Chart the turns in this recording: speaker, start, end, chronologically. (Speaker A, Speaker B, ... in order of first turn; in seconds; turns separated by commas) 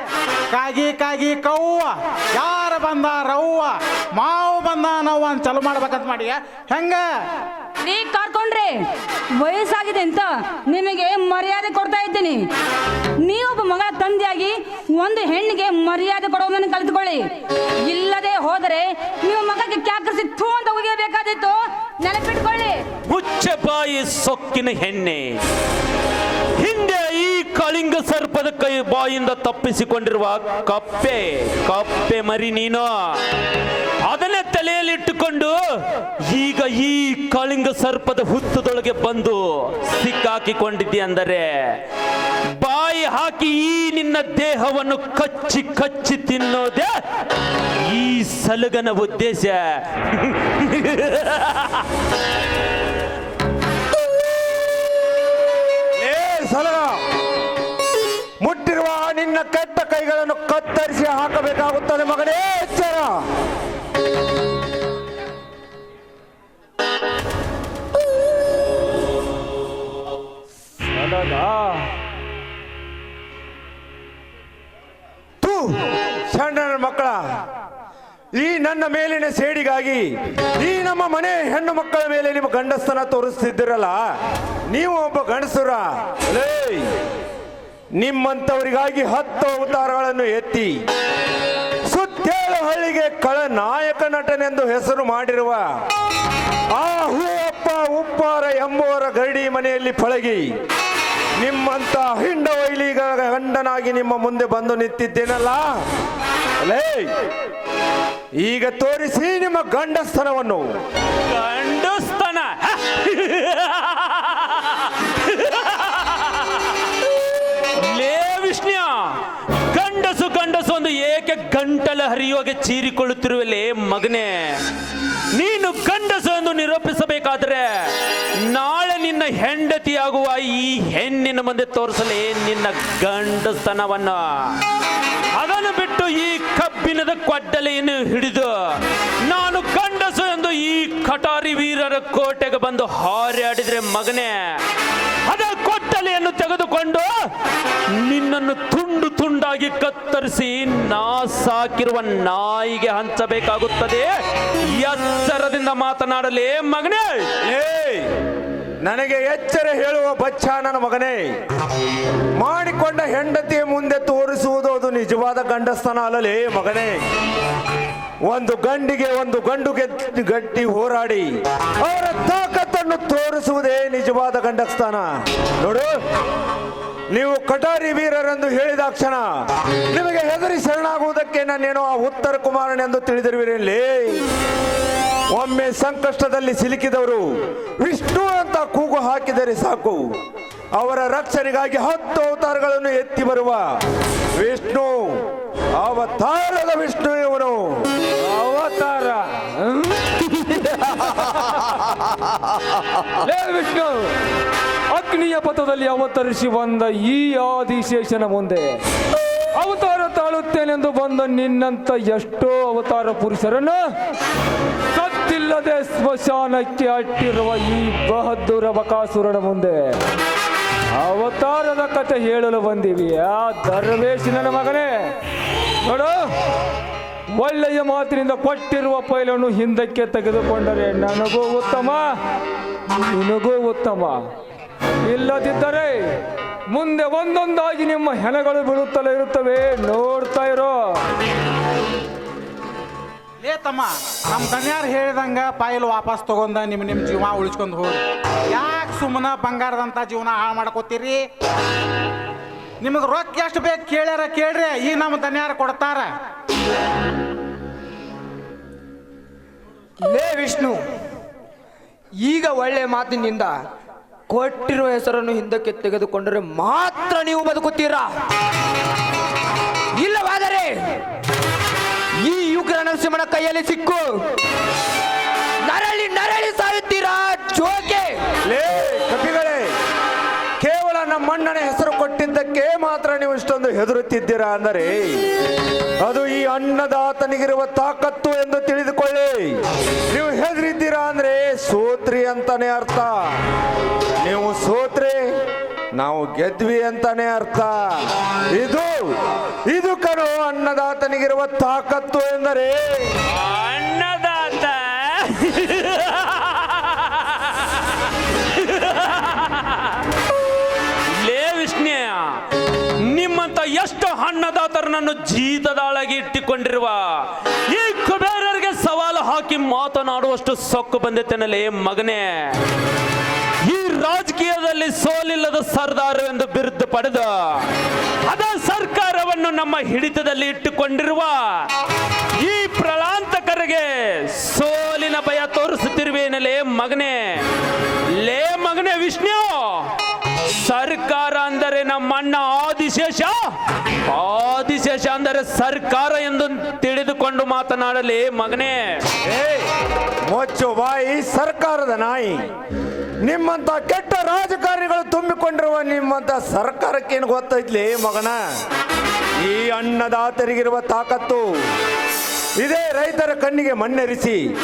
Speaker A: 0.5-7.0, Speaker B: 7.8-8.8, Speaker B: 9.4-12.4, Speaker B: 13.2-17.2, Speaker B: 17.8-22.8, Speaker C: 23.1-25.4, Speaker C: 26.6-33.2, Speaker C: 34.0-35.5, Speaker C: 36.3-41.8, Speaker C: 42.6-47.0, Speaker C: 47.8-51.8, Speaker D: 56.0-57.0, Speaker D: 58.4-63.2, Speaker E: 70.9-71.9, Speaker D: 75.4-77.2, Speaker D: 78.3-84.0, Speaker D: 84.7-86.9, Speaker D: 88.0-90.7, Speaker D: 91.9-95.6, Speaker D: 96.7-100.5, Speaker D: 101.4-105.7, Speaker D: 106.6-107.1, Speaker D: 108.4-110.6, Speaker C: 111.3-116.6, Speaker C: 117.7-119.2, Speaker C: 119.7-124.6, Speaker C: 125.3-127.9, Speaker C: 128.4-134.6, Speaker C: 135.3-144.6, Speaker C: 145.3-147.1, Speaker C: 147.9-157.3, Speaker D: 157.4-158.1, Speaker D: 158.8-161.2, Speaker D: 162.4-167.0, Speaker D: 168.3-171.3, Speaker D: 171.8-175.1, Speaker D: 175.6-175.9, Speaker D: 177.1-179.2, Speaker D: 179.9-184.2, Speaker D: 185.3-187.3, Speaker D: 187.8-190.0, Speaker D: 190.7-193.7, Speaker D: 194.4-197.9, Speaker E: 198.2-201.6, Speaker E: 203.2-204.1, Speaker E: 204.9-208.8, Speaker E: 209.5-213.8, Speaker E: 214.9-220.0, Speaker E: 220.9-225.2, Speaker E: 225.8-226.3, Speaker E: 227.3-232.2, Speaker E: 232.9-234.3, Speaker E: 235.0-241.0, Speaker A: 243.4-251.2, Speaker A: 252.8-256.1, Speaker F: 260.0-260.8, Speaker F: 262.2-263.5, Speaker F: 264.3-268.1, Speaker F: 270.0-270.7, Speaker F: 272.2-274.1, Speaker F: 275.7-278.1, Speaker D: 278.5-279.7, Speaker D: 280.6-285.0, Speaker D: 286.0-289.6, Speaker D: 290.1-293.1, Speaker D: 294.2-295.2, Speaker D: 296.0-298.9, Speaker D: 299.7-303.1, Speaker C: 303.3-307.9, Speaker C: 308.5-310.0, Speaker C: 311.2-312.4, Speaker C: 313.0-322.6, Speaker C: 323.6-327.6, Speaker C: 328.2-331.7, Speaker C: 332.4-337.4, Speaker C: 338.2-339.9, Speaker C: 340.6-343.5, Speaker C: 344.1-349.0, Speaker D: 349.2-349.7, Speaker D: 350.3-352.4, Speaker D: 353.2-358.4, Speaker D: 359.4-361.4, Speaker D: 362.6-364.4